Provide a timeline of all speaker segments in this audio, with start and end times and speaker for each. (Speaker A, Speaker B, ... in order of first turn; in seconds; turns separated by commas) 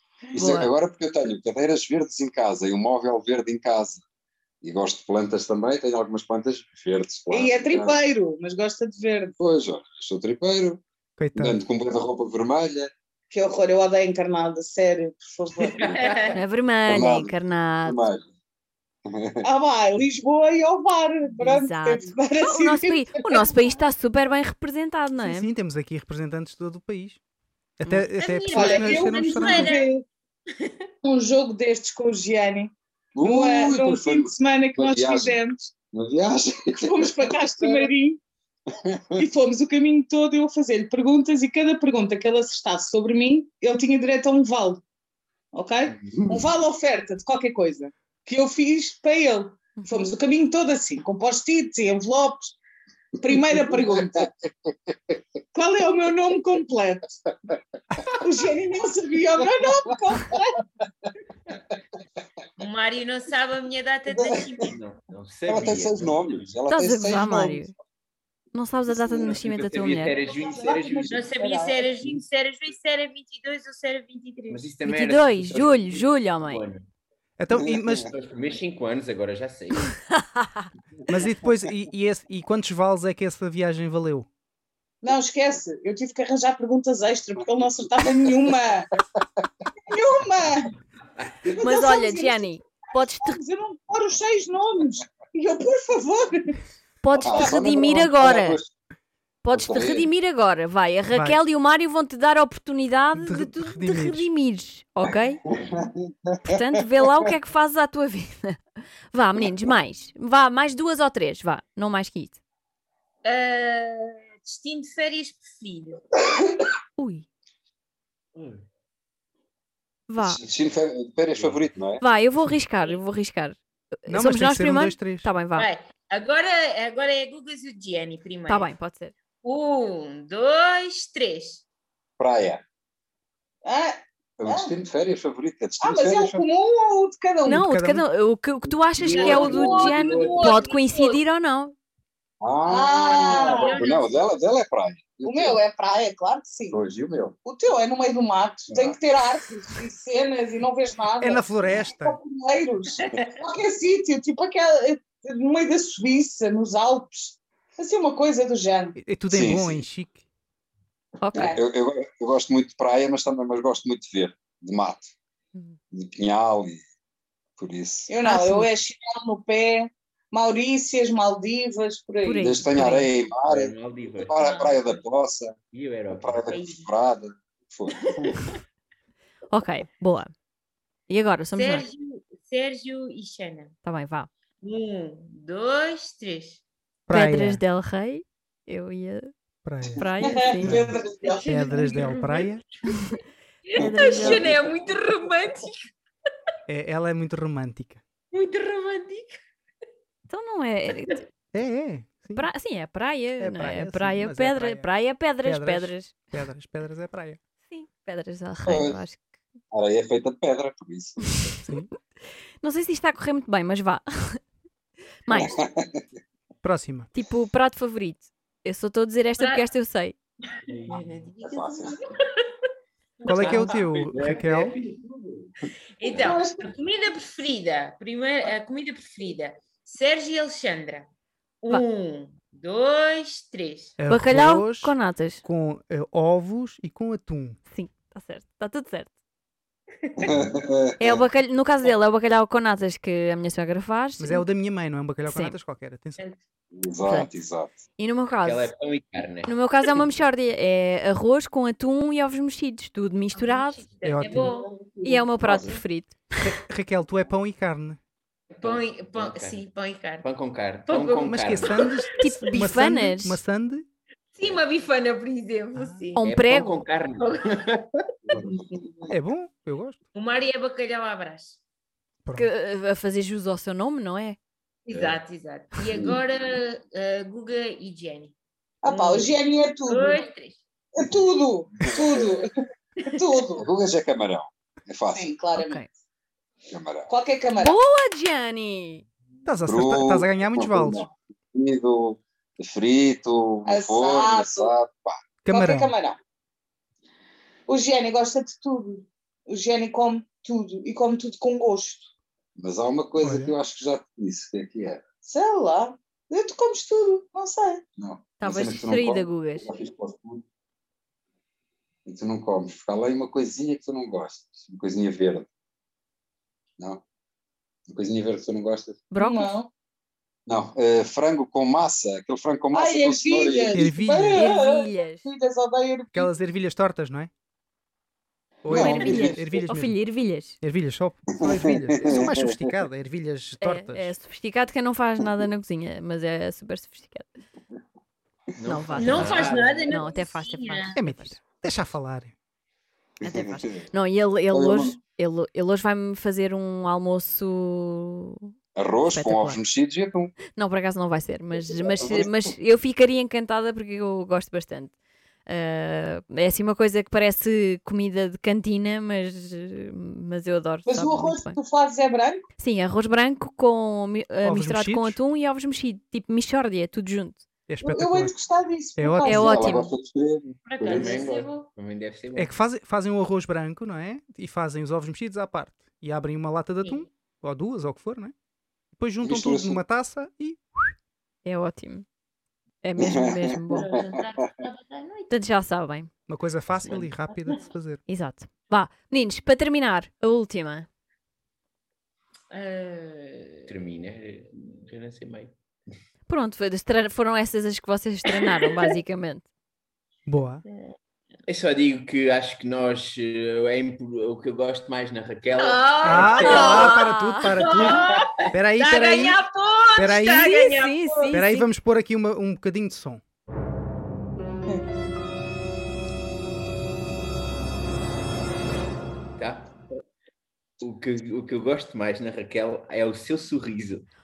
Speaker A: 0.3-4.0, Speaker B: 0.3-0.7, Speaker A: 4.6-8.0, Speaker C: 7.3-9.4, Speaker A: 9.4-10.8, Speaker D: 11.2-11.6, Speaker A: 11.4-12.9, Speaker C: 13.3-15.9, Speaker E: 15.8-16.4, Speaker B: 16.3-18.1, Speaker A: 16.9-18.3, Speaker A: 19.1-19.4, Speaker C: 19.4-23.5, Speaker B: 21.4-25.5, Speaker D: 25.2-27.2, Speaker D: 27.8-29.7, Speaker E: 28.2-29.9, Speaker C: 28.5-30.0, Speaker C: 31.0-32.7, Speaker A: 33.1-35.4, Speaker C: 33.2-35.7, Speaker A: 35.9-37.9, Speaker C: 36.8-38.2, Speaker A: 38.8-39.2, Speaker C: 39.2-44.8, Speaker C: 45.5-52.6, Speaker A: 46.2-46.4, Speaker B: 49.8-50.1, Speaker C: 53.2-54.3, Speaker A: 53.3-54.3, Speaker C: 55.5-57.2, Speaker C: 58.1-60.6, Speaker E: 62.6-64.8, Speaker A: 64.1-64.5, Speaker F: 64.6-66.4, Speaker A: 65.5-67.6, Speaker B: 66.7-67.7, Speaker B: 68.5-70.2, Speaker A: 68.9-69.3, Speaker F: 69.4-71.2, Speaker C: 70.2-71.9, Speaker E: 71.1-74.6, Speaker F: 74.5-76.8, Speaker B: 74.9-76.6, Speaker D: 77.4-78.1, Speaker A: 77.6-78.1, Speaker F: 78.1-79.9, Speaker B: 80.1-80.7, Speaker D: 81.1-84.3, Speaker C: 85.0-88.9, Speaker C: 89.9-90.8, Speaker C: 91.5-92.5, Speaker B: 91.6-93.4, Speaker C: 93.2-96.6, Speaker B: 97.0-98.6, Speaker C: 97.2-98.0, Speaker A: 97.2-98.7, Speaker B: 99.4-105.4, Speaker A: 99.5-100.1, Speaker D: 101.1-101.4, Speaker D: 103.2-104.3, Speaker A: 105.5-106.6, Speaker B: 106.5-108.6, Speaker B: 109.1-112.4, Speaker E: 113.2-116.0, Speaker B: 117.0-117.3, Speaker F: 118.4-118.6, Speaker B: 120.1-120.4, Speaker A: 120.2-122.0, Speaker F: 121.3-121.6, Speaker B: 122.0-125.7, Speaker D: 124.1-125.3, Speaker E: 125.5-128.7, Speaker B: 128.5-129.1, Speaker E: 129.4-131.6, Speaker A: 132.2-132.6, Speaker C: 133.7-134.7, Speaker A: 134.4-136.4, Speaker C: 135.8-137.7, Speaker B: 137.4-141.8, Speaker D: 137.6-138.1, Speaker F: 139.0-140.6, Speaker E: 139.1-141.2, Speaker A: 142.4-145.6, Speaker C: 142.7-143.7, Speaker E: 143.1-144.2, Speaker C: 145.3-146.8, Speaker A: 146.7-147.3, Speaker C: 147.4-159.0, Speaker A: 148.7-149.0, Speaker D: 151.2-152.2, Speaker D: 159.0-160.2, Speaker A: 159.3-159.8, Speaker B: 161.2-161.6, Speaker C: 161.3-161.6, Speaker A: 161.3-165.1, Speaker A: 165.9-166.8, Speaker A: 167.6-168.1, Speaker C: 168.1-172.5, Speaker B: 168.2-168.7, Speaker B: 172.2-173.1, Speaker A: 172.4-175.6, Speaker F: 173.4-175.0, Speaker E: 174.3-174.7, Speaker F: 175.7-176.5, Speaker A: 176.2-178.5, Speaker E: 176.5-176.9, Speaker B: 179.5-180.3, Speaker B: 181.1-181.9, Speaker E: 181.5-183.7, Speaker B: 183.8-184.3, Speaker E: 184.6-186.6, Speaker D: 187.1-187.6, Speaker B: 187.1-189.3, Speaker D: 189.6-190.1, Speaker B: 189.9-190.9, Speaker C: 190.2-191.4, Speaker D: 190.6-192.6, Speaker E: 191.2-192.5, Speaker B: 192.9-193.2, Speaker E: 193.7-195.9, Speaker B: 193.8-194.5, Speaker D: 196.7-198.0, Speaker E: 198.3-199.4, Speaker B: 200.3-201.2, Speaker D: 201.5-202.5, Speaker B: 202.3-206.3, Speaker D: 203.4-207.4, Speaker B: 207.7-209.3, Speaker A: 208.7-209.0, Speaker A: 209.7-211.5, Speaker B: 212.6-214.4, Speaker B: 215.3-215.6, Speaker A: 215.3-216.1, Speaker D: 216.6-217.1, Speaker B: 217.1-220.2, Speaker E: 219.4-219.6, Speaker F: 220.7-221.3, Speaker E: 220.9-222.5, Speaker A: 221.4-222.0, Speaker E: 223.2-223.8, Speaker D: 223.2-224.8, Speaker F: 223.3-225.5, Speaker E: 226.0-231.1, Speaker C: 226.1-226.7, Speaker E: 231.6-234.0, Speaker D: 234.0-237.6, Speaker B: 234.1-235.4, Speaker B: 237.7-239.1, Speaker E: 240.1-240.3, Speaker A: 240.2-241.2, Speaker B: 241.0-244.5, Speaker D: 244.2-246.2, Speaker B: 245.3-245.6, Speaker A: 246.7-247.8, Speaker B: 247.0-247.3, Speaker B: 248.0-248.7, Speaker F: 248.4-249.6, Speaker B: 249.5-253.8, Speaker E: 253.3-255.0, Speaker D: 254.0-254.5, Speaker B: 255.0-256.3, Speaker D: 256.4-258.0, Speaker E: 258.5-260.3, Speaker F: 258.6-259.6, Speaker F: 260.2-261.8, Speaker E: 260.9-262.2, Speaker D: 261.3-263.9, Speaker B: 262.2-263.4, Speaker E: 264.4-266.3, Speaker D: 265.8-266.0, Speaker B: 266.1-266.8, Speaker F: 266.2-268.0, Speaker E: 267.1-267.6, Speaker E: 268.7-269.1, Speaker D: 269.1-270.0, Speaker E: 270.1-271.6, Speaker B: 272.3-274.4, Speaker E: 274.9-278.3, Speaker F: 274.9-275.2, Speaker C: 278.8-280.2, Speaker E: 278.9-280.6, Speaker C: 281.0-282.5, Speaker A: 281.8-282.2, Speaker C: 283.0-283.7, Speaker A: 283.6-285.3, Speaker C: 285.1-285.8, Speaker B: 285.6-285.9, Speaker A: 286.7-287.1, Speaker C: 287.1-287.8, Speaker B: 287.6-289.0, Speaker D: 289.4-291.1, Speaker A: 289.7-295.2, Speaker C: 293.7-294.7, Speaker D: 295.4-295.9, Speaker C: 295.5-296.2, Speaker C: 297.7-302.1, Speaker A: 302.6-305.0, Speaker D: 303.2-303.5, Speaker C: 305.2-307.8, Speaker A: 308.0-310.4, Speaker B: 308.4-309.7, Speaker A: 312.1-315.5, Speaker A: 317.9-319.0, Speaker B: 319.1-319.6, Speaker C: 319.2-319.7, Speaker A: 320.5-323.9, Speaker C: 322.7-326.3, Speaker D: 323.7-324.5, Speaker B: 324.3-325.3, Speaker D: 326.1-327.3, Speaker D: 328.6-330.0, Speaker A: 328.6-329.7, Speaker B: 328.7-330.6, Speaker D: 330.6-334.1, Speaker A: 331.4-332.8, Speaker B: 333.6-337.3, Speaker F: 338.6-339.9, Speaker B: 338.6-341.4, Speaker E: 339.0-341.0, Speaker D: 341.0-342.3, Speaker B: 343.2-348.5, Speaker A: 343.2-343.8, Speaker A: 344.5-345.0, Speaker A: 348.8-350.3, Speaker B: 349.1-349.6, Speaker B: 350.6-354.9, Speaker A: 351.6-352.3, Speaker B: 355.5-361.6, Speaker C: 360.9-362.4, Speaker B: 362.6-367.4, Speaker D: 364.4-365.2, Speaker D: 367.7-368.4, Speaker C: 367.8-369.9, Speaker D: 369.0-369.5, Speaker B: 369.2-369.9, Speaker A: 369.4-371.2, Speaker E: 370.7-371.7, Speaker F: 370.8-372.5, Speaker D: 372.4-378.3, Speaker D: 379.0-380.9, Speaker A: 379.2-379.8, Speaker B: 381.4-382.1, Speaker B: 382.8-383.9, Speaker A: 383.0-384.3, Speaker E: 383.7-385.3, Speaker B: 385.3-386.1, Speaker D: 386.3-388.0, Speaker B: 388.1-390.9, Speaker E: 392.5-393.7, Speaker F: 393.7-395.5, Speaker B: 396.3-399.5, Speaker D: 400.3-400.6, Speaker E: 400.7-400.9, Speaker F: 401.5-406.6, Speaker E: 405.5-411.4, Speaker D: 406.0-409.4, Speaker B: 406.4-407.9, Speaker D: 410.0-410.5, Speaker B: 410.2-411.7, Speaker D: 411.3-413.2, Speaker F: 419.4-419.7, Speaker F: 420.8-424.1